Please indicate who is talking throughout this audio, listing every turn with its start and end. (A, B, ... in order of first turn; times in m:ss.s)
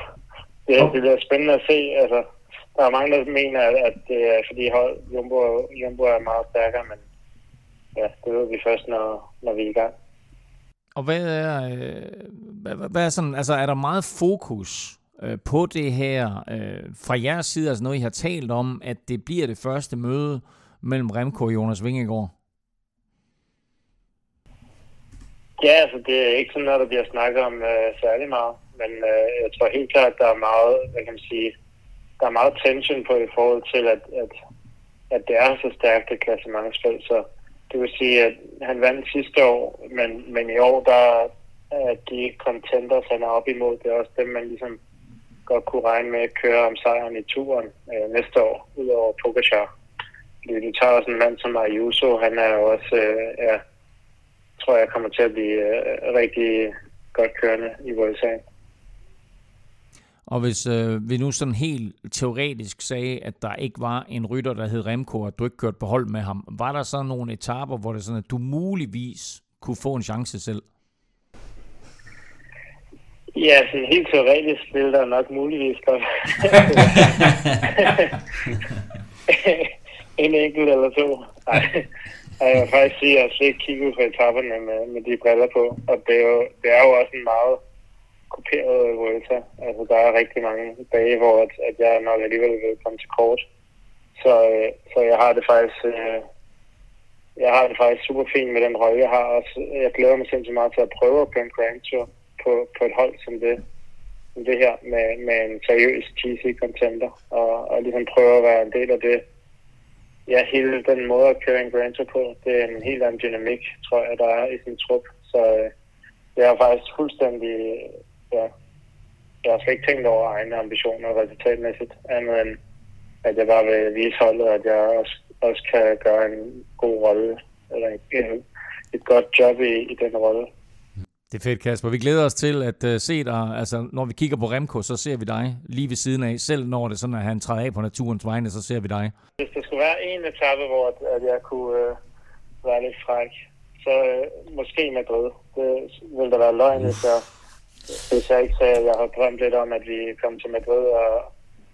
0:00.7-0:07.0 A
0:08.0-0:09.9 A
0:11.0-0:22.3 B
0:25.6-0:31.5 A
0:32.2-0:34.3 A
0:35.1-0:44.8 A
0:45.5-0:49.7 A
0:50.4-0:53.6 A
0:54.6-0:58.4 A
1:00.3-1:10.6 B
1:13.4-1:18.1 A
1:19.3-1:21.9 A
1:22.4-1:27.6 A
1:28.3-1:33.4 A
1:34.2-1:36.2 A
1:37.4-1:43.6 A
1:44.4-1:49.2 A
1:50.3-1:55.7 A
1:56.4-1:58.5 A
1:59.4-2:02.6 A
2:03.2-2:08.4 A
2:08.9-2:10.5 A
2:11.3-2:19.1 B
2:19.4-2:22.0 A
2:22.6-2:23.3 A
2:23.8-2:27.2 A
2:28.1-2:31.3 A